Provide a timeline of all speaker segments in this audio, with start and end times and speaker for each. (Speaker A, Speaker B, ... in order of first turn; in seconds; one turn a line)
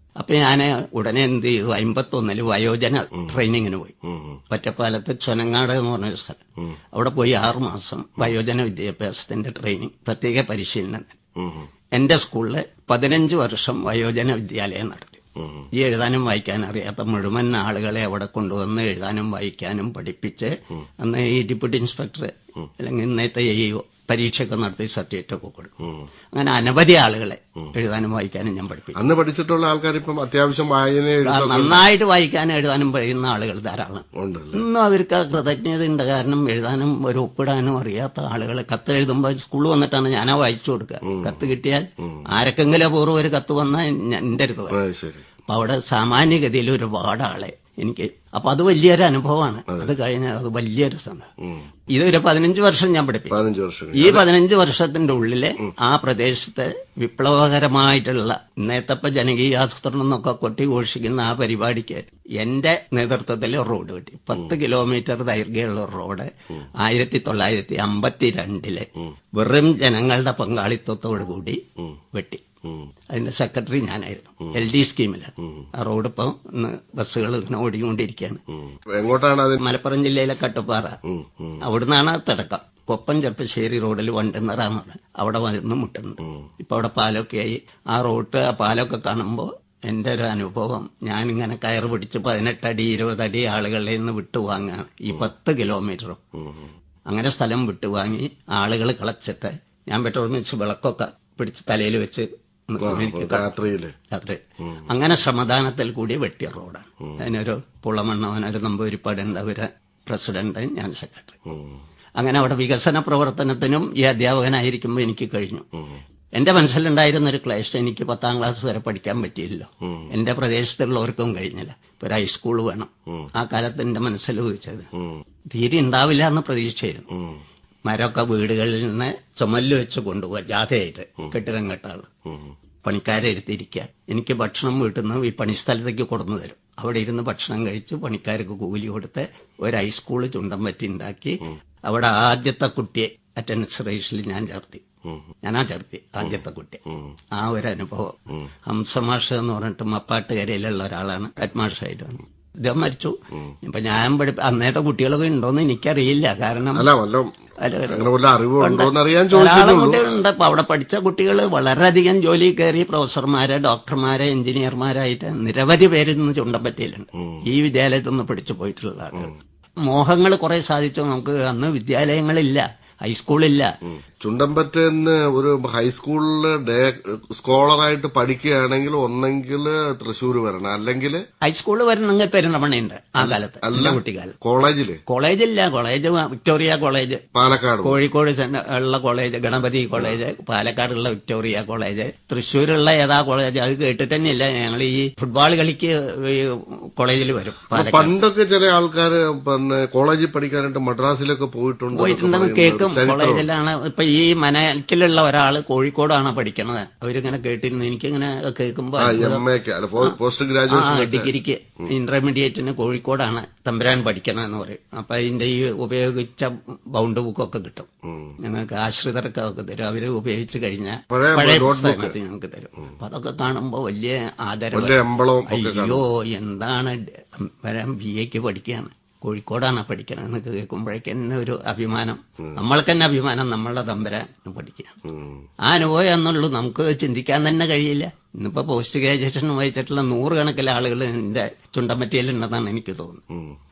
Speaker A: 0.2-4.0
Speaker B: 4.1-4.3
Speaker A: 4.5-6.4
Speaker A: 6.9-11.2
Speaker B: 11.4-11.7
Speaker A: 11.9-15.2
Speaker B: 15.4-15.7
Speaker A: 15.7-25.8
Speaker A: 26.3-29.0
Speaker B: 28.9-31.8
Speaker A: 31.2-44.8
Speaker B: 34.1-34.6
Speaker B: 41.1-41.4
Speaker B: 44.7-45.2
Speaker A: 45.5-51.3
Speaker A: 51.9-53.4
Speaker B: 53.3-54.3
Speaker A: 53.9-72.4
Speaker A: 73.1-78.4
Speaker B: 78.7-79.6
Speaker A: 79.6-81.0
Speaker B: 81.0-81.6
Speaker A: 81.6-96.2
Speaker B: 96.4-96.7
Speaker A: 97.1-103.5
Speaker B: 102.8-103.9
Speaker A: 104.1-111.4
Speaker B: 111.5-111.8
Speaker A: 112.2-115.7
Speaker A: 116.3-124.9
Speaker B: 125.0-125.2
Speaker A: 125.5-127.1
Speaker B: 127.1-127.4
Speaker A: 127.8-132.1
Speaker A: 132.8-144.8
Speaker A: 145.4-146.8
Speaker A: 147.3-156.9
Speaker B: 156.7-157.3
Speaker A: 157.6-169.3
Speaker B: 157.9-160.2
Speaker A: 169.8-173.7
Speaker B: 174.2-181.2
Speaker A: 181.4-184.3
Speaker B: 183.2-185.0
Speaker A: 185.1-187.2
Speaker B: 187.3-188.0
Speaker A: 187.8-198.1
Speaker B: 197.7-203.5
Speaker A: 201.9-209.4
Speaker B: 209.0-211.3
Speaker A: 210.7-217.9
Speaker B: 218.1-218.3
Speaker A: 218.4-234.9
Speaker B: 221.1-222.2
Speaker B: 224.7-226.0
Speaker B: 235.1-235.4
Speaker A: 235.7-243.2